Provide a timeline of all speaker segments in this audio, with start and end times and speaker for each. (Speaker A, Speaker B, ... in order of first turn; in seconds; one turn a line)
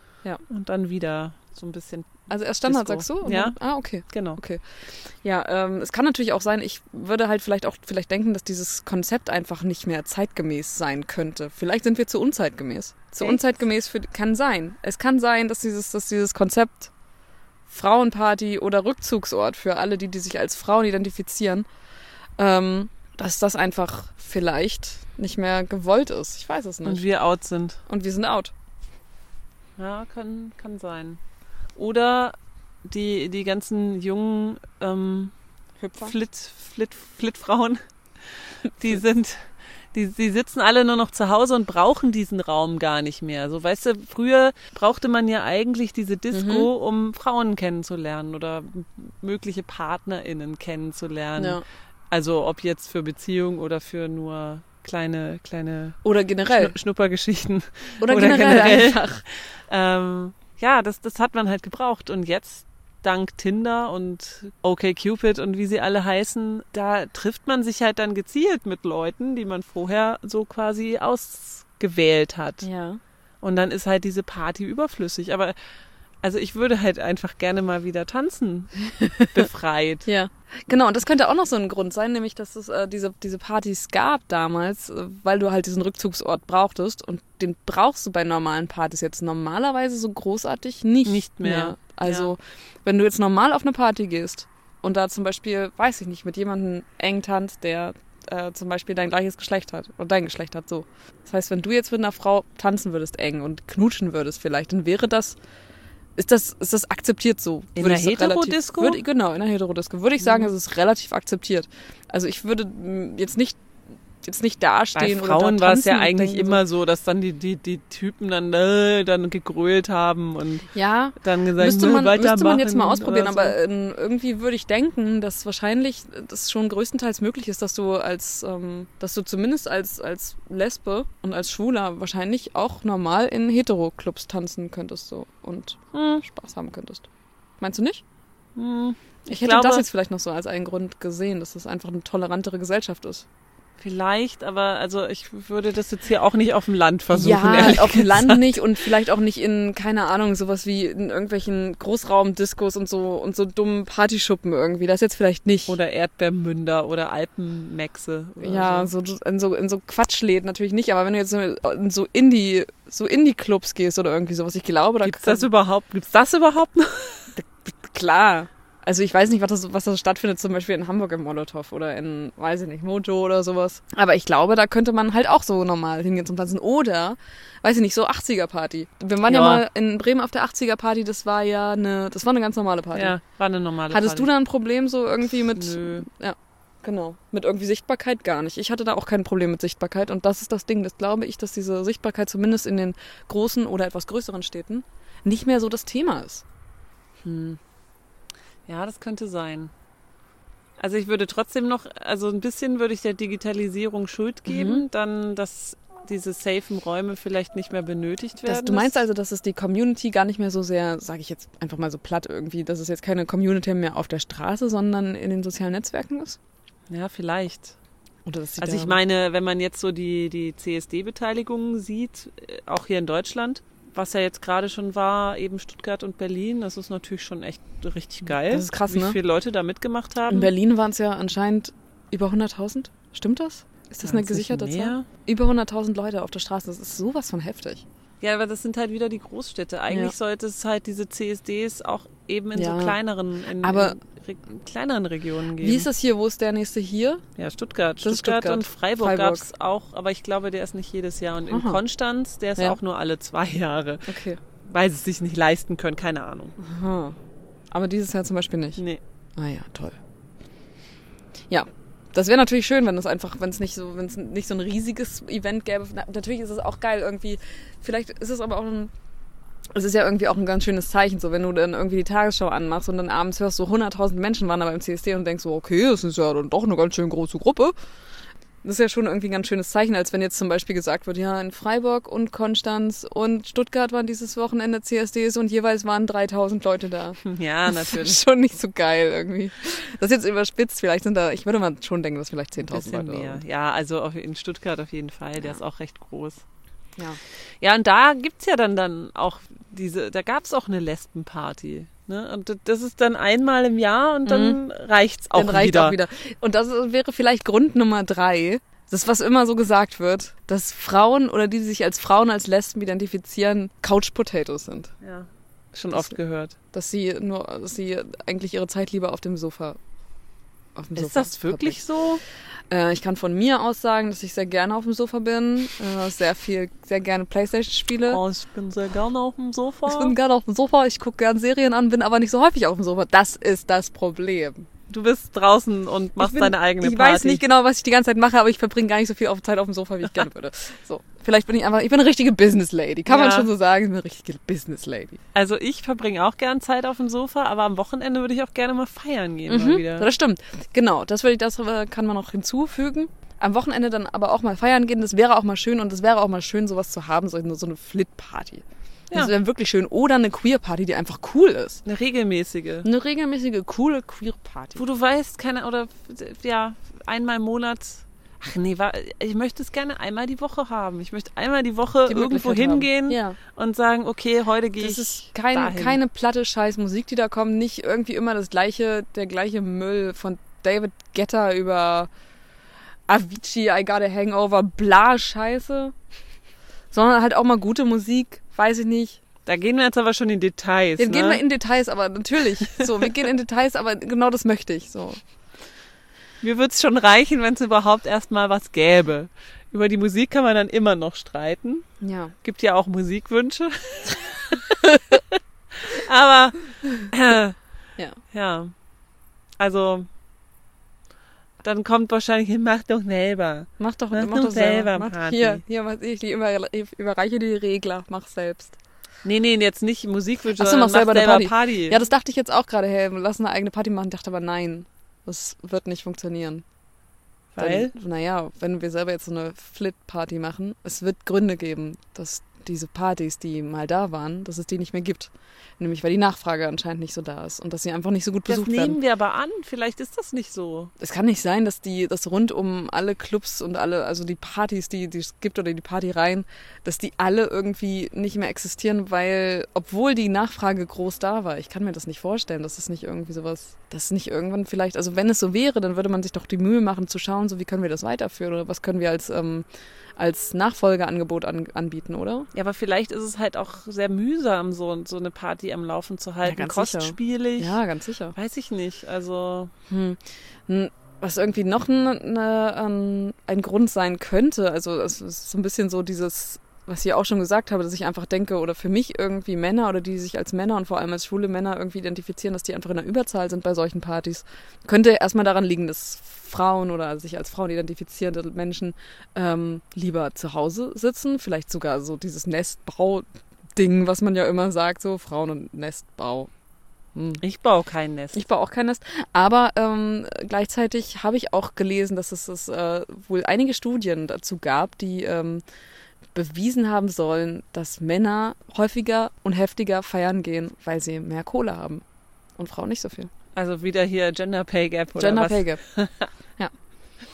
Speaker A: 0.5-3.5
Speaker B: 2.3-4.6
Speaker A: 4.1-4.4
Speaker B: 5.2-16.9
Speaker B: 17.7-21.7
Speaker B: 22.4-27.0
Speaker A: 26.8-27.8
Speaker B: 27.9-28.5
Speaker A: 29.8-31.2
Speaker A: 31.8-35.3
Speaker B: 35.8-36.1
Speaker A: 36.0-37.8
Speaker A: 38.7-72.7
Speaker B: 46.3-46.7
Speaker B: 51.4-51.6
Speaker B: 56.0-56.7
Speaker B: 58.0-59.2
Speaker B: 72.6-73.0
Speaker A: 73.4-75.5
Speaker A: 76.2-80.1
Speaker B: 79.0-79.4
Speaker B: 80.0-105.4
Speaker A: 91.0-92.3
Speaker B: 106.2-113.6
Speaker A: 107.8-109.0
Speaker A: 110.2-110.5
Speaker B: 114.2-116.6
Speaker A: 115.0-123.6
Speaker B: 120.7-137.1
Speaker A: 135.9-136.2
Speaker B: 137.6-138.0
Speaker A: 138.6-139.8
Speaker B: 139.3-143.2
Speaker A: 143.8-148.5
Speaker B: 147.1-155.7
Speaker A: 155.7-158.9
Speaker B: 158.4-165.5
Speaker A: 165.0-167.3
Speaker B: 167.3-183.1
Speaker A: 179.2-179.6
Speaker A: 182.9-184.3
Speaker B: 183.9-196.4
Speaker A: 185.5-186.1
Speaker A: 197.2-197.6
Speaker A: 198.7-199.7
Speaker A: 200.8-209.0
Speaker B: 204.5-204.8
Speaker B: 208.4-216.4
Speaker A: 216.9-217.8
Speaker B: 218.2-219.0
Speaker A: 218.6-230.5
Speaker B: 228.3-229.2
Speaker B: 230.3-237.8
Speaker A: 234.0-235.1
Speaker A: 238.2-245.9
Speaker B: 239.9-240.1
Speaker B: 242.5-243.0
Speaker B: 243.6-244.0
Speaker B: 245.6-247.2
Speaker A: 247.4-256.6
Speaker B: 248.0-249.5
Speaker B: 251.5-251.8
Speaker B: 254.1-254.4
Speaker B: 256.6-257.2
Speaker B: 257.7-258.8
Speaker A: 258.8-259.0
Speaker B: 259.4-260.0
Speaker B: 261.5-268.9
Speaker B: 269.7-277.7
Speaker B: 278.6-293.4
Speaker A: 287.2-288.2
Speaker A: 292.7-296.4
Speaker A: 297.6-306.0
Speaker B: 304.2-304.6
Speaker B: 305.3-314.9
Speaker A: 315.0-316.6
Speaker B: 316.7-319.8
Speaker B: 320.8-321.8
Speaker A: 320.9-322.2
Speaker B: 322.7-328.2
Speaker A: 328.1-330.1
Speaker B: 329.9-334.7
Speaker A: 334.9-337.4
Speaker B: 336.2-345.2
Speaker A: 343.1-343.5
Speaker A: 345.3-350.1
Speaker B: 349.5-361.8
Speaker A: 361.8-362.9
Speaker B: 362.8-364.8
Speaker A: 364.8-376.0
Speaker B: 372.1-373.4
Speaker B: 374.8-382.1
Speaker B: 383.1-385.9
Speaker B: 386.9-389.2
Speaker A: 389.4-391.4
Speaker B: 391.0-395.2
Speaker A: 396.4-401.9
Speaker B: 402.0-402.3
Speaker A: 402.4-405.2
Speaker A: 405.7-407.6
Speaker A: 408.3-408.7
Speaker A: 409.6-410.1
Speaker A: 411.6-415.6
Speaker B: 413.8-418.8
Speaker A: 419.2-422.0
Speaker B: 420.5-426.6
Speaker A: 427.5-427.9
Speaker B: 427.6-439.0
Speaker A: 438.5-440.9
Speaker B: 441.0-462.5
Speaker A: 462.5-467.8
Speaker B: 466.4-468.4
Speaker A: 468.3-469.7
Speaker B: 469.9-496.5
Speaker B: 497.1-497.4
Speaker A: 497.4-498.4
Speaker B: 498.3-505.6
Speaker B: 506.3-512.0
Speaker B: 512.6-513.3
Speaker A: 513.5-516.3
Speaker B: 515.1-515.8